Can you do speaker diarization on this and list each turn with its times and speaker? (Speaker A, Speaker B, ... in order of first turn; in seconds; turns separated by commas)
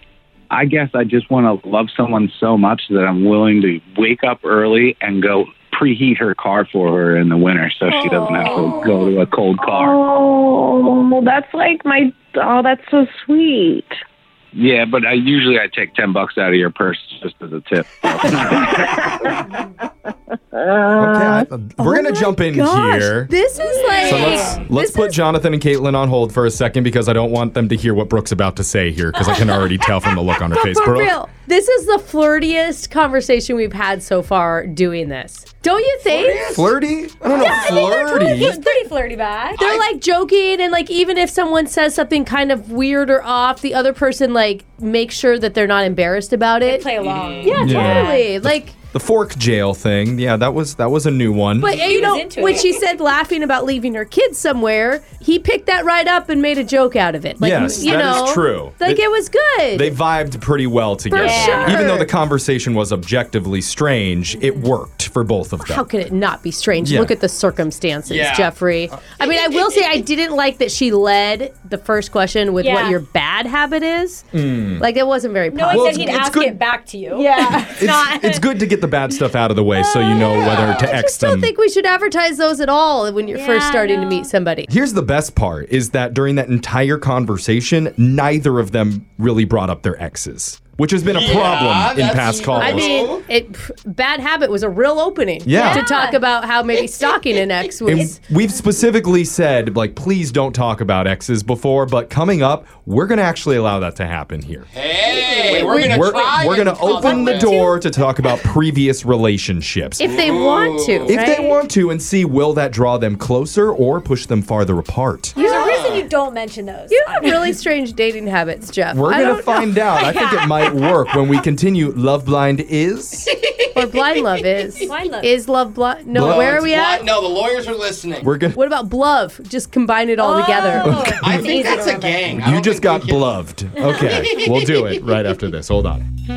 Speaker A: 0.5-10.0, Speaker B: 7.9-9.1, Speaker B: 9.6-13.9, Speaker A: 14.5-18.9, Speaker B: 18.5-19.5, Speaker B: 20.5-21.4, Speaker C: 21.0-23.3, Speaker D: 21.8-25.2, Speaker E: 23.7-24.1, Speaker C: 24.0-31.2, Speaker D: 30.5-36.5, Speaker F: 36.1-36.7, Speaker C: 36.5-38.6, Speaker E: 37.3-39.6, Speaker D: 37.3-38.8, Speaker D: 39.6-46.9, Speaker F: 39.6-39.9, Speaker E: 46.6-48.3, Speaker F: 47.0-47.7, Speaker D: 47.4-48.8, Speaker C: 47.5-51.9, Speaker D: 51.6-60.0, Speaker E: 51.8-52.8, Speaker C: 57.4-59.1, Speaker C: 59.7-65.9, Speaker D: 61.1-62.1, Speaker E: 61.2-61.8, Speaker D: 65.6-76.2, Speaker C: 66.8-67.2, Speaker F: 68.1-68.5, Speaker E: 72.6-73.0, Speaker C: 74.3-74.9, Speaker E: 75.5-78.5, Speaker C: 75.7-76.6, Speaker D: 77.1-77.7, Speaker C: 77.6-81.5, Speaker D: 79.8-84.7, Speaker F: 80.2-81.0, Speaker E: 83.3-84.3, Speaker C: 84.7-93.1, Speaker F: 91.1-93.3, Speaker D: 92.6-98.2, Speaker C: 95.5-95.8, Speaker E: 95.6-96.2, Speaker C: 97.9-104.7, Speaker F: 104.7-107.6, Speaker D: 105.0-106.2, Speaker E: 105.3-105.7, Speaker C: 105.5-110.1, Speaker D: 106.9-107.8, Speaker D: 110.0-111.6, Speaker F: 110.0-111.2, Speaker C: 111.1-115.3, Speaker E: 115.3-117.5, Speaker D: 115.4-115.8, Speaker F: 115.6-116.1, Speaker D: 116.9-119.7, Speaker C: 118.9-123.3, Speaker E: 119.9-121.0, Speaker F: 123.3-123.8, Speaker D: 123.7-127.1, Speaker E: 124.8-125.3, Speaker C: 126.1-126.7, Speaker F: 126.1-128.3, Speaker C: 128.2-128.6, Speaker D: 128.5-131.1, Speaker E: 130.2-132.3, Speaker C: 130.8-131.5, Speaker F: 131.0-133.4, Speaker C: 132.3-136.0, Speaker F: 134.0-135.0